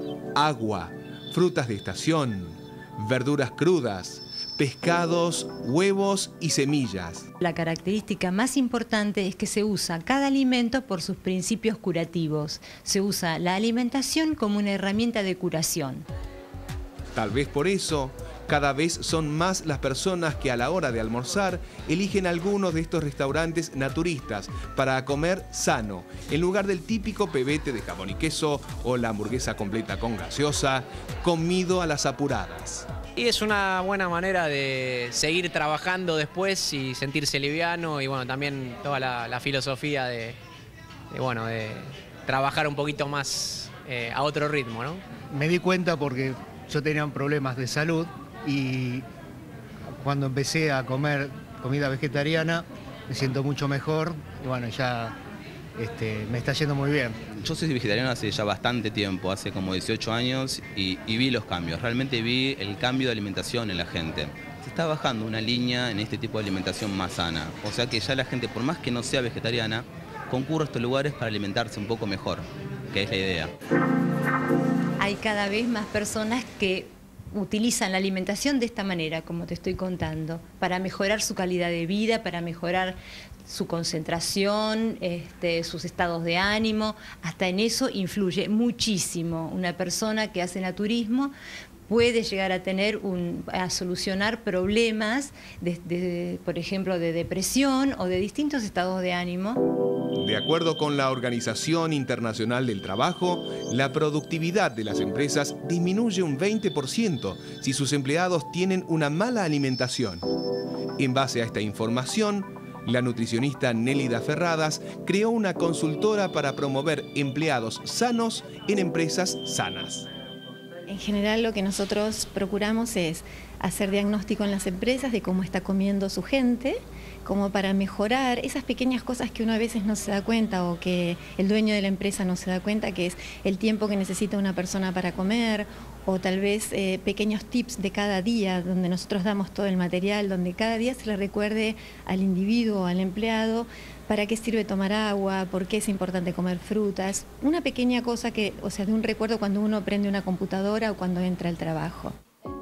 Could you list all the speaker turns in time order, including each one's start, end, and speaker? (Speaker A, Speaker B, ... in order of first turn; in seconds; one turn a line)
Speaker A: 0.3-7.3
Speaker B: 7.4-16.1
Speaker A: 17.1-32.9
Speaker C: 33.1-40.4
Speaker C: 41.1-45.0
Speaker D: 45.3-49.0
Speaker D: 50.0-55.1
Speaker D: 55.8-57.2
Speaker E: 57.4-73.5
Speaker B: 75.0-91.3
Speaker B: 91.9-99.6
Speaker A: 100.2-110.2
Speaker A: 111.0-120.0
Speaker F: 120.9-152.1